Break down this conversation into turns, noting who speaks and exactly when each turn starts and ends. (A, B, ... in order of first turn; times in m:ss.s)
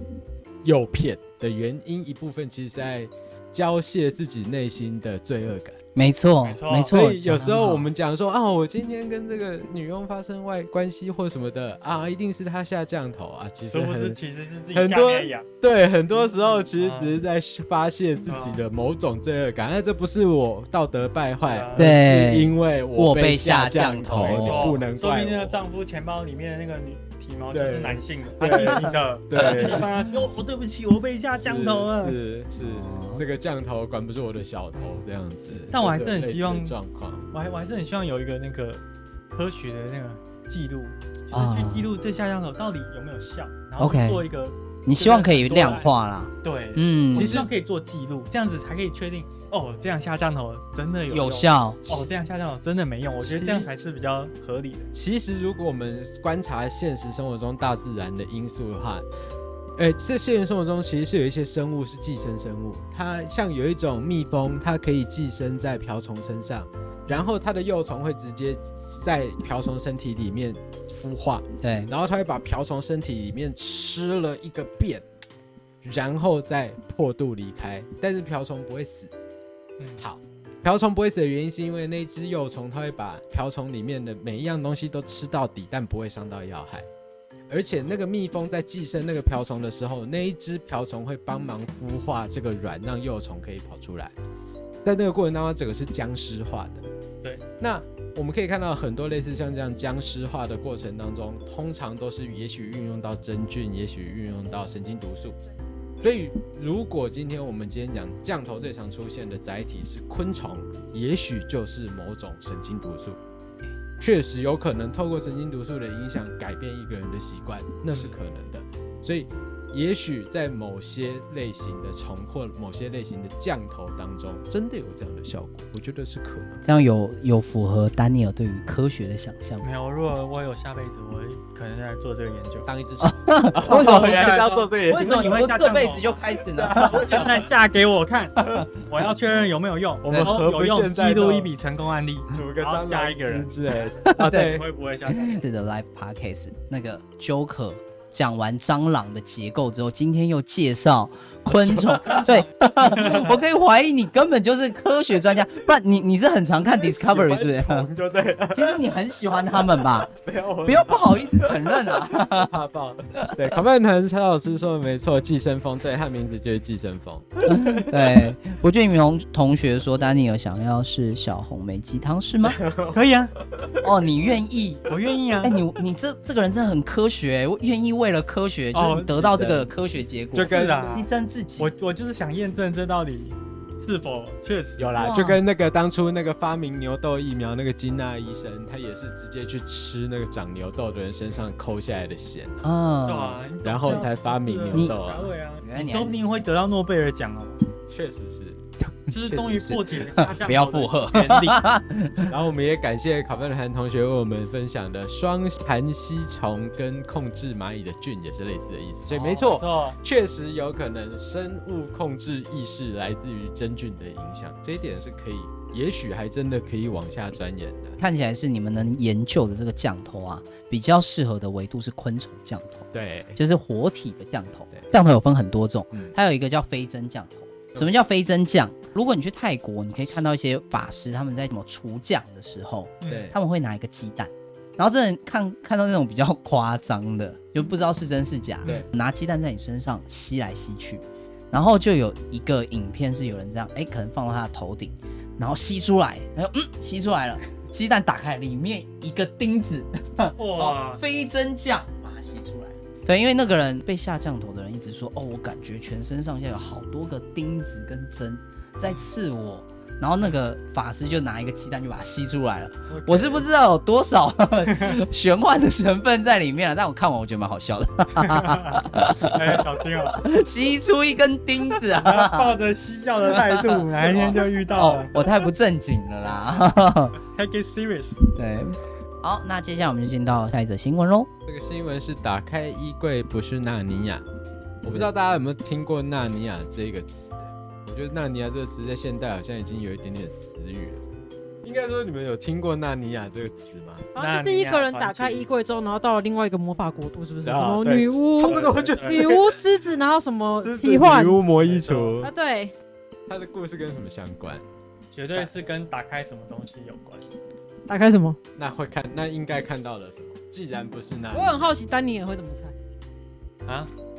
0:00.6-0:05.8 A
0:05.9-0:07.9 B
0:06.4-0:06.9 C
0:06.9-0:14.2 A
0:13.6-0:15.4 C
0:14.7-0:25.6 A
0:16.7-0:17.1 C
0:18.3-0:18.6 C
0:21.4-0:21.9 C
0:21.7-0:24.8 B
0:24.2-0:32.2 C
0:27.5-0:29.9 A
0:31.4-0:37.3 A
0:32.6-0:33.2 B
0:34.8-0:35.0 C
0:35.7-0:36.7 C
0:37.3-0:54.9 C
0:41.3-0:41.9 B
0:43.8-0:44.3 B
0:44.8-0:47.4 B
0:47.1-0:47.5 A
0:51.1-0:51.8 B
0:53.2-0:53.7 A
0:54.9-0:59.0 A
0:59.8-1:15.0 A
1:11.6-1:11.9 B
1:15.8-1:19.1 A
1:20.0-1:26.9 A
1:27.5-1:34.1 A
1:34.8-1:36.8 A
1:37.6-1:45.4 A
1:46.0-1:53.2 A
1:54.0-2:06.6 A
2:06.6-2:09.7 B
2:09.6-2:12.7 C
2:12.6-2:15.5 A
2:13.0-2:14.3 B
2:13.6-2:16.1 C
2:14.9-2:17.4 B
2:16.6-2:17.4 A
2:16.7-2:25.4 C
2:20.1-2:20.4 B
2:20.1-2:21.5 A
2:22.3-2:24.6 A
2:24.1-2:24.5 B
2:25.1-2:37.9 B
2:31.6-2:32.2 A
2:32.1-2:33.4 C
2:36.7-2:38.8 A
2:38.5-2:40.1 B
2:40.1-2:41.6 A
2:40.6-2:42.5 B
2:42.2-2:47.9 A
2:47.5-2:52.6 B
2:52.4-2:53.0 A
2:52.9-2:53.3 C
2:53.5-2:53.8 A
2:53.8-2:54.8 B
2:54.9-2:55.6 C
2:55.4-3:01.7 B
2:58.7-2:59.3 C
2:59.2-2:59.7 A
3:00.3-3:01.0 A
3:00.4-3:01.1 C
3:01.6-3:05.1 C
3:04.8-3:12.7 A
3:05.0-3:05.4 B
3:12.6-3:13.4 B
3:13.0-3:17.7 C
3:13.6-3:15.3 A
3:14.7-3:15.0 B
3:15.6-3:16.2 B
3:17.8-3:18.6 A
3:19.1-3:21.6 C
3:19.3-3:20.2 A
3:20.1-3:22.3 B
3:22.2-3:38.0 A
3:29.1-3:30.0 C
3:38.0-4:32.5 B
3:42.9-3:43.4 A
3:53.0-3:53.4 A
4:10.4-4:11.0 C
4:22.9-4:23.4 C
4:24.7-4:25.0 C
4:28.2-4:30.2 C
4:31.9-4:35.3 C
4:33.2-4:37.1 B
4:37.2-4:38.3 C
4:38.3-4:41.3 B
4:41.4-4:44.2 A
4:44.8-4:51.0 A
4:51.6-4:54.1 A
4:54.1-5:01.4 D
4:54.2-4:55.4 C
4:57.4-4:59.6 A
4:58.4-4:59.2 C
5:00.6-5:02.3 A
5:01.6-5:02.2 C
5:02.2-5:02.7 D
5:03.3-5:04.6 A
5:05.1-5:07.2 C
5:07.9-5:08.4 D
5:08.6-5:11.7 A
5:11.3-5:12.7 D
5:13.6-5:13.9 C